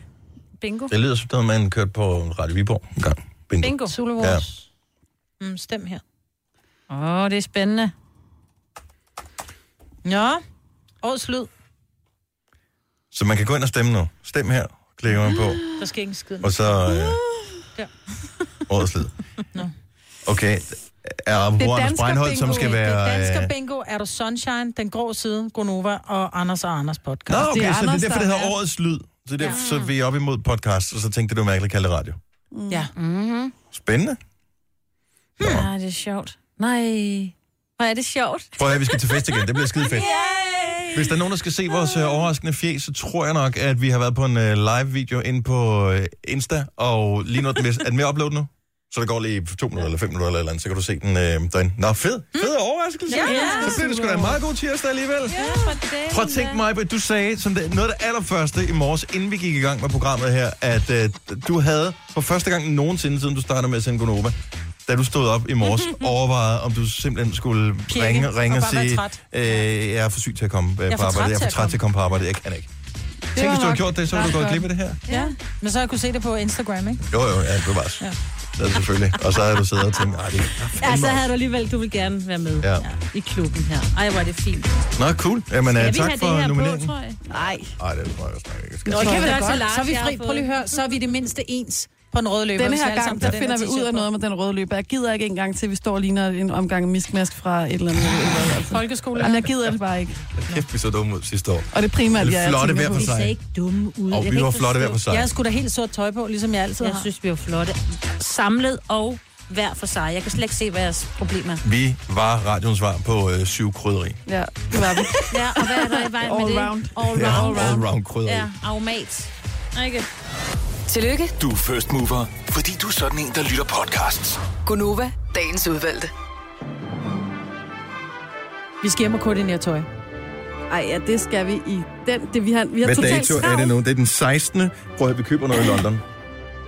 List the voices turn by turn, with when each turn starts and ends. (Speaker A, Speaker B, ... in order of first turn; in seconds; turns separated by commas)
Speaker A: 0.6-0.9, Speaker B: 0.9-4.4, Speaker A: 3.6-4.5, Speaker C: 3.9-4.3, Speaker C: 5.4-6.0, Speaker A: 6.9-7.9, Speaker C: 10.0-10.4, Speaker C: 11.0-11.5, Speaker B: 13.1-15.6, Speaker C: 15.8-16.8, Speaker B: 16.4-17.2, Speaker B: 18.7-19.1, Speaker B: 20.2-23.5, Speaker D: 21.6-22.8, Speaker C: 22.4-27.5, Speaker B: 27.3-32.2, Speaker D: 27.4-28.5, Speaker A: 29.4-29.9, Speaker D: 32.5-32.9, Speaker A: 33.0-33.5, Speaker B: 33.7-34.2, Speaker B: 35.4-35.7, Speaker A: 35.4-41.1, Speaker B: 38.6-40.1, Speaker B: 40.9-55.4, Speaker C: 53.1-53.8, Speaker A: 53.1-53.8, Speaker D: 53.3-54.3, Speaker A: 55.3-56.6, Speaker C: 55.4-55.6, Speaker B: 56.1-72.7, Speaker C: 67.9-69.2, Speaker C: 70.9-71.8, Speaker D: 73.3-74.6, Speaker B: 73.3-75.0, Speaker A: 75.1-75.3, Speaker C: 75.1-77.0, Speaker B: 77.1-81.3, Speaker A: 80.8-84.8, Speaker B: 85.0-89.4, Speaker A: 85.6-87.2, Speaker D: 87.3-87.7, Speaker C: 88.8-94.1, Speaker A: 89.0-90.6, Speaker D: 89.0-89.3, Speaker D: 92.5-100.2, Speaker C: 98.7-99.5, Speaker B: 100.4-103.3, Speaker D: 101.7-103.1, Speaker A: 102.9-105.0, Speaker B: 104.1-105.3, Speaker C: 105.1-107.1, Speaker A: 106.8-111.6, Speaker B: 111.6-114.2, Speaker D: 114.3-117.8, Speaker A: 115.3-120.1, Speaker B: 117.1-118.5, Speaker E: 120.9-121.3, Speaker F: 121.4-124.5, Speaker E: 124.5-126.1, Speaker C: 128.8-129.9, Speaker D: 130.7-133.7, Speaker B: 132.8-136.0